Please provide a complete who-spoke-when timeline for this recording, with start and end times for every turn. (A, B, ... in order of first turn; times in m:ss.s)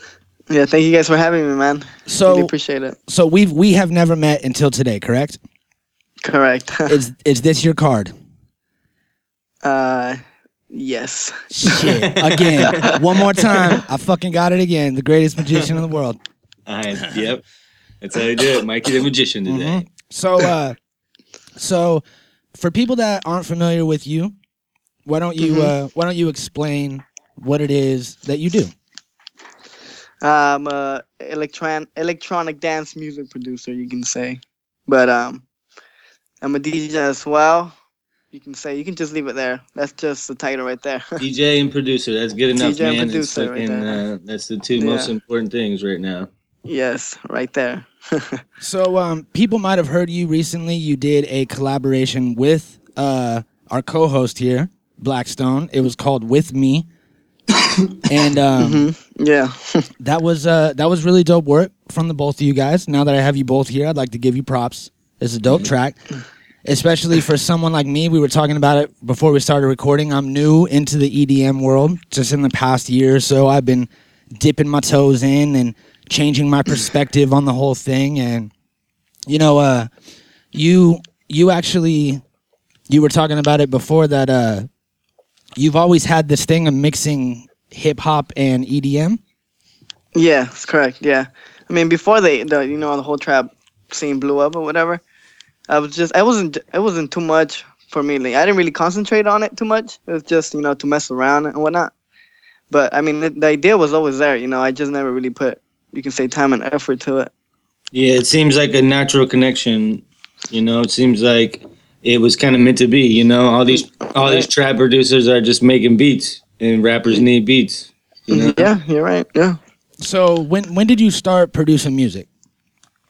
0:00.5-0:03.0 A
0:02.1-0:02.5 B
0:03.1-0:05.4 B
0:06.2-0:07.0 A
0:06.9-0:08.1 B
0:09.6-0:10.2 A
0:10.7-0:12.0 A
0:11.5-0:16.2 B
0:12.0-0:13.8 C
0:12.7-0:13.0 A
0:16.7-0:17.4 C
0:18.0-0:19.9 C
0:19.4-0:20.8 B
0:21.6-0:24.3 B
0:25.0-0:28.7 B
0:25.4-0:25.7 A
0:30.2-0:35.4 A
0:36.4-0:37.7 A
0:38.3-0:41.2 A
0:41.2-0:46.3 C
0:42.5-0:44.0 A
0:44.8-0:45.1 A
0:46.6-0:48.4 A
0:48.6-0:56.8 B
0:58.1-0:58.9 B
0:58.6-0:59.9 A
1:00.0-1:06.0 B
1:06.6-1:18.5 B
1:19.3-1:19.9 B
1:20.5-1:22.2 B
1:22.9-1:24.7 B
1:25.6-1:29.2 B
1:30.1-1:35.0 A
1:35.7-1:41.9 A
1:42.7-1:47.3 A
1:47.9-1:58.7 C
1:53.7-1:54.5 A
1:58.3-1:59.6 A
2:00.0-2:02.3 B